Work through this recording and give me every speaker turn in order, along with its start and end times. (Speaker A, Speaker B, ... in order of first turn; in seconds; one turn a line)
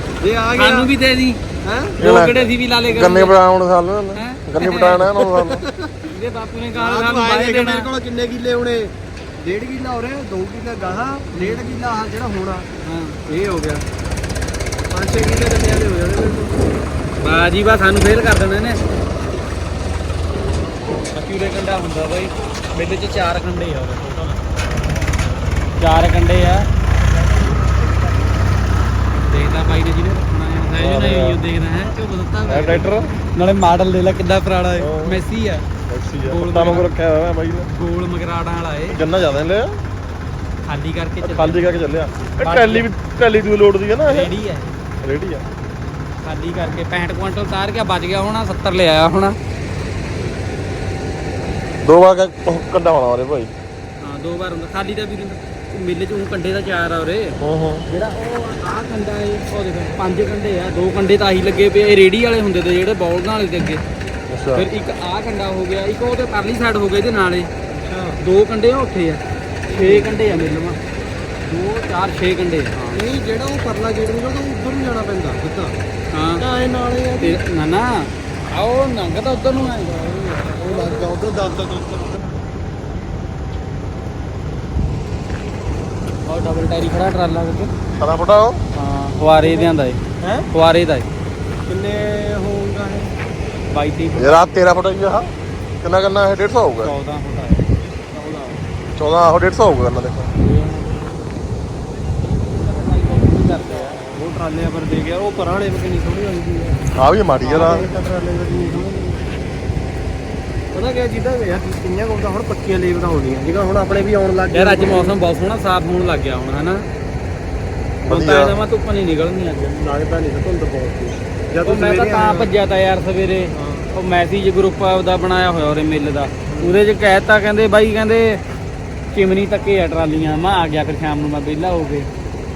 Speaker A: 0.2-0.9
Speaker B: 0.6-1.4
Speaker A: 1.6-2.0
Speaker C: 2.0-5.7
Speaker B: 2.0-3.4
Speaker B: 4.2-5.0
Speaker A: 5.2-5.9
Speaker B: 6.1-7.9
Speaker A: 6.8-12.7
Speaker B: 11.3-11.7
Speaker B: 12.8-13.2
Speaker A: 13.3-13.8
Speaker A: 14.9-16.6
Speaker B: 17.2-18.8
Speaker B: 21.1-24.4
Speaker B: 25.8-26.7
Speaker A: 27.1-28.3
Speaker B: 29.2-35.7
Speaker C: 30.8-31.4
Speaker C: 32.5-33.1
Speaker C: 34.8-35.2
Speaker C: 35.9-37.7
Speaker B: 36.2-36.9
Speaker B: 37.7-39.0
Speaker C: 38.9-39.7
Speaker B: 40.7-41.8
Speaker C: 41.2-44.3
Speaker B: 42.4-42.9
Speaker B: 44.1-44.7
Speaker C: 45.0-45.4
Speaker B: 46.2-49.4
Speaker C: 51.8-53.5
Speaker B: 54.0-63.8
Speaker C: 57.4-57.8
Speaker C: 64.3-64.7
Speaker B: 64.5-67.5
Speaker A: 67.7-68.2
Speaker B: 68.2-70.8
Speaker A: 69.7-70.7
Speaker B: 71.4-73.0
Speaker A: 72.9-75.8
Speaker B: 76.1-76.5
Speaker A: 76.4-77.4
Speaker B: 77.2-79.9
Speaker A: 79.7-82.5
Speaker B: 80.6-81.2
Speaker B: 86.3-87.7
Speaker C: 88.0-88.6
Speaker B: 88.8-90.0
Speaker A: 89.4-89.7
Speaker A: 90.2-90.5
Speaker B: 90.5-91.1
Speaker A: 91.7-93.1
Speaker B: 93.7-94.5
Speaker C: 94.2-95.3
Speaker C: 95.8-96.9
Speaker B: 96.8-97.7
Speaker A: 98.1-98.6
Speaker C: 99.0-100.3
Speaker B: 100.4-100.8
Speaker B: 102.5-104.0
Speaker A: 103.6-106.8
Speaker C: 106.9-107.9
Speaker A: 107.4-109.2
Speaker B: 108.5-108.9
Speaker A: 110.7-115.2
Speaker B: 114.5-116.8
Speaker B: 118.1-119.7
Speaker C: 118.1-118.5
Speaker A: 119.7-122.5
Speaker B: 121.6-128.4
Speaker A: 123.6-123.9
Speaker A: 126.5-126.8
Speaker B: 129.1-132.1